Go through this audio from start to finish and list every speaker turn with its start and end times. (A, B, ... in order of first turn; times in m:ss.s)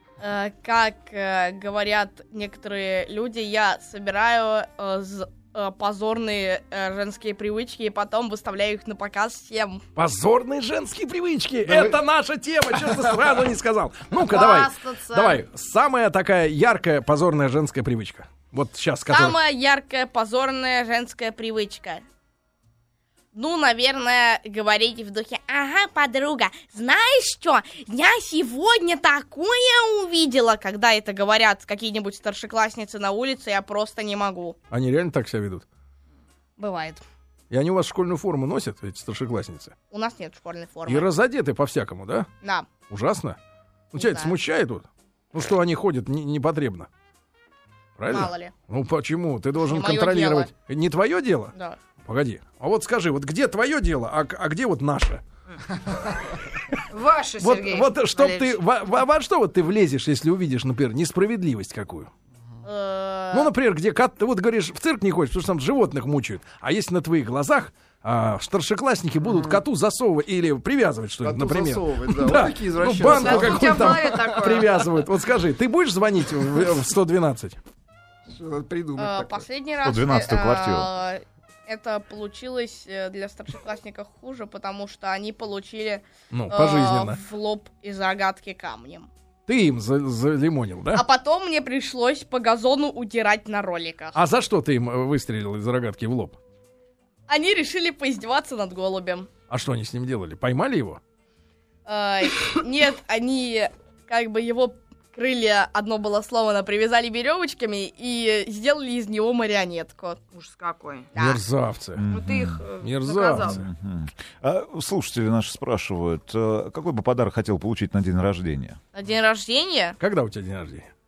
0:00.2-0:09.8 A
0:09.9-0:19.4 B
0:11.7-0:12.0 C
0:14.2-0:15.4 D
0:19.1-0:22.0 A
0:23.3-0:34.6 A
0:34.7-0:35.6 B
0:36.6-0:37.0 A
0:37.5-0:39.7 B
0:39.9-0:41.1 A
0:40.9-0:42.3 B
0:42.4-0:42.7 A
0:42.9-0:43.4 B
0:43.9-0:46.9 B
0:43.9-0:44.3 A
0:48.0-0:51.5 B
0:48.1-0:48.5 A
0:49.6-0:50.5 A
0:52.0-0:55.2 B
0:56.6-0:56.8 B
0:56.9-0:58.6 D
0:57.4-1:02.1 B
1:02.6-1:03.5 A
1:03.3-1:17.6 B
1:11.2-1:14.6 C
1:13.1-1:14.7 D
1:18.3-1:19.4 C
1:19.0-1:29.1 A
1:19.8-1:20.9 E
1:26.3-1:27.2 B
1:29.5-1:31.0 B
1:30.9-1:34.2 A
1:34.1-1:36.4 B
1:37.3-1:39.3 A
1:39.5-1:41.0 B
1:41.8-1:50.2 A
1:50.3-1:51.1 D
1:51.1-1:51.4 A
1:51.2-1:52.0 B
1:52.0-1:52.6 E
1:52.1-1:53.6 D
1:52.8-1:53.6 B
1:53.4-1:58.8 E
1:58.9-2:00.0 A
2:00.0-2:00.9 B